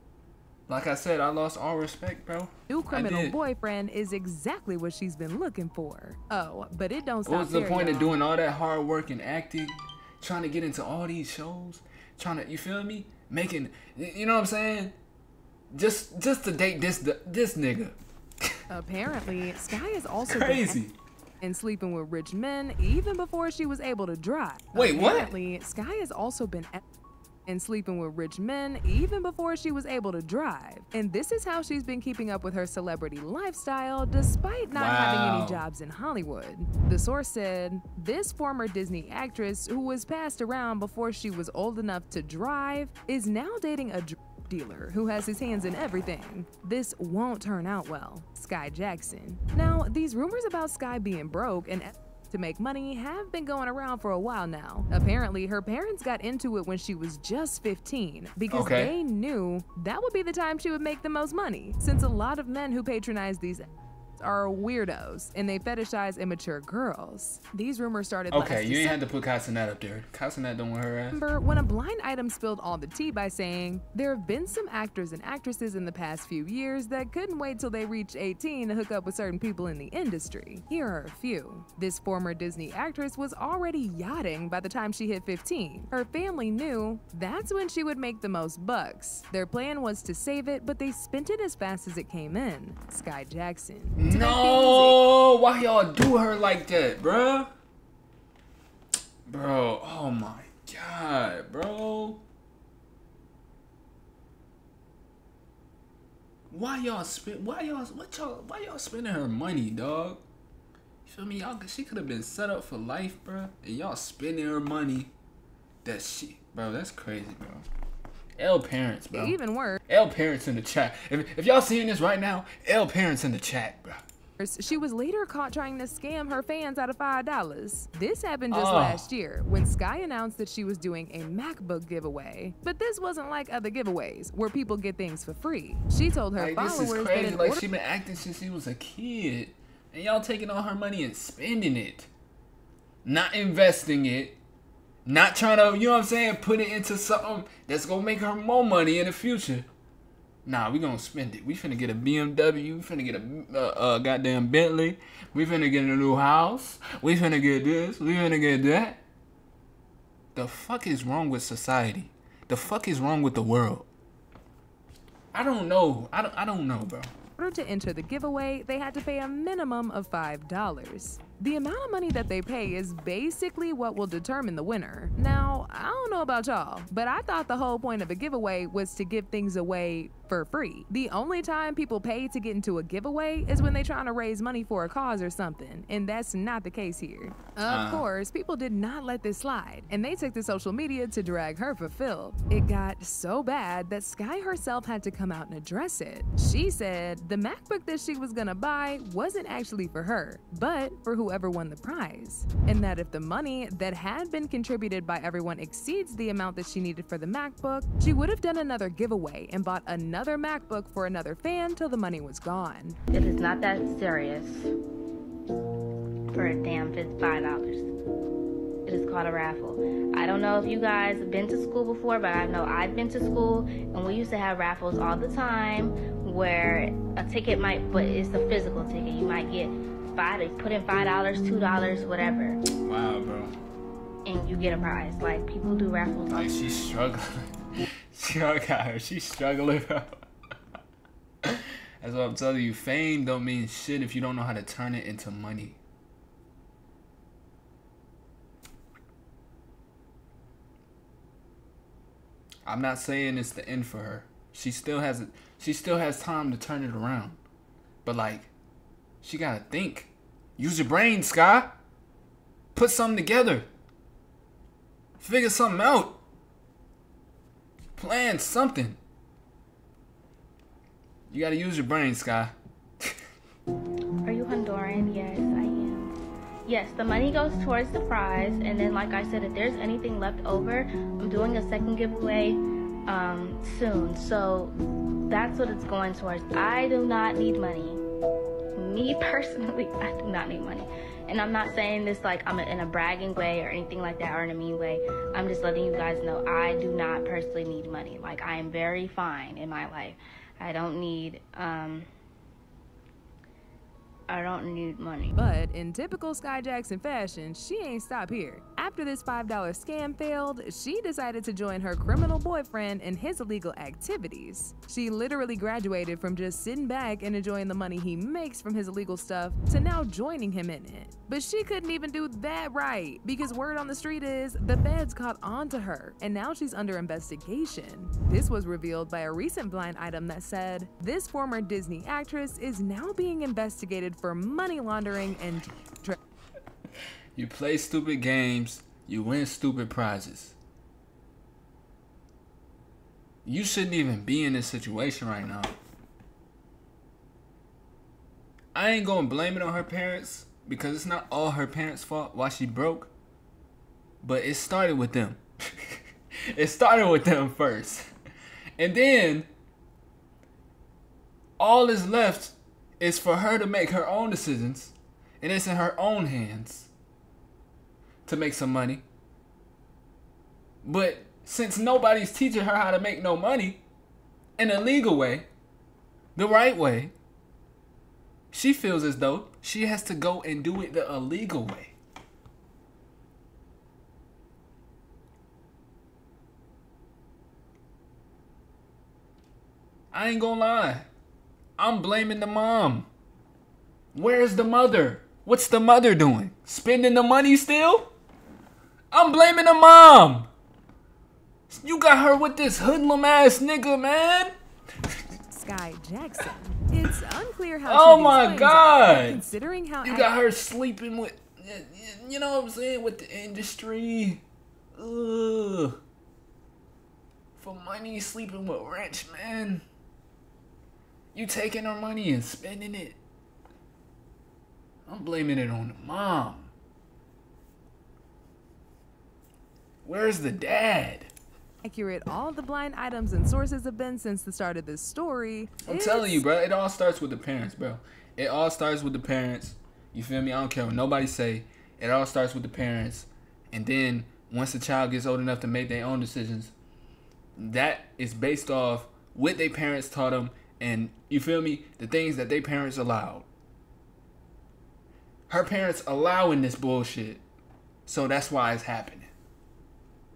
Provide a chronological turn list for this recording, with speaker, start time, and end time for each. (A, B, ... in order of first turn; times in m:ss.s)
0:00.7-0:03.4 A
0:02.7-0:08.2 B
0:07.3-0:14.9 A
0:15.7-0:18.0 A
0:18.7-0:20.8 B
0:20.3-0:20.9 A
0:21.4-0:26.8 B
0:24.7-0:25.3 A
0:27.5-1:03.7 B
0:34.7-0:35.6 A
0:58.5-0:59.0 A
1:04.2-1:09.0 B
1:08.3-1:11.2 A
1:11.1-1:35.0 B
1:34.0-1:37.5 A
1:39.3-1:42.2 A
1:46.5-1:50.2 A
1:51.0-1:55.1 A
1:55.8-1:57.7 A
1:58.4-1:59.4 A
1:59.1-1:59.8 B
1:59.9-2:04.0 A
2:04.4-2:17.6 B
2:08.5-2:09.0 A
2:16.4-2:22.1 A
2:23.0-2:24.4 A
2:25.1-2:29.7 A
2:30.4-2:39.0 A
2:40.4-2:43.9 A
2:45.3-2:47.1 A
2:47.4-3:33.0 B
3:07.7-3:08.1 A
3:33.1-3:34.7 C
3:36.3-3:37.9 C
3:38.9-3:52.6 C
3:52.8-3:53.5 A
3:54.2-3:56.7 C
3:56.3-3:57.5 A
3:58.1-4:00.2 A
4:01.4-4:05.8 A
4:12.7-4:17.4 A
4:18.0-4:18.5 A
4:19.2-4:21.8 A
4:22.8-4:23.7 A
4:25.2-4:26.2 A
4:28.0-4:29.0 A
4:31.3-4:33.1 A
4:34.2-4:44.7 C
4:45.3-4:48.0 C
4:48.8-5:02.1 C
5:04.3-5:05.4 C
5:05.3-5:36.2 B
5:37.4-5:40.6 A
5:43.4-5:45.7 A
5:48.7-5:53.1 A
5:54.2-5:56.0 A
5:56.5-5:58.1 A
5:58.8-5:59.5 A
6:01.6-6:06.9 A
6:08.3-6:09.0 A
6:10.8-6:13.8 A
6:14.6-6:15.5 A
6:16.4-6:17.1 A
6:18.5-6:22.0 A
6:30.1-6:31.1 A
6:31.8-6:33.1 A
6:34.1-6:38.1 A
6:39.1-6:40.5 A
6:41.7-6:44.5 A
6:45.5-6:50.3 B
6:47.9-6:49.4 A
6:50.0-6:54.4 A
6:54.9-6:56.0 A
6:57.6-6:59.8 A
7:01.3-7:03.2 A
7:05.1-7:06.7 A
7:10.0-7:11.3 A
7:11.8-7:16.4 B
7:15.8-7:26.7 A
7:27.6-7:33.5 A
7:35.5-7:37.4 A
7:38.1-7:39.3 A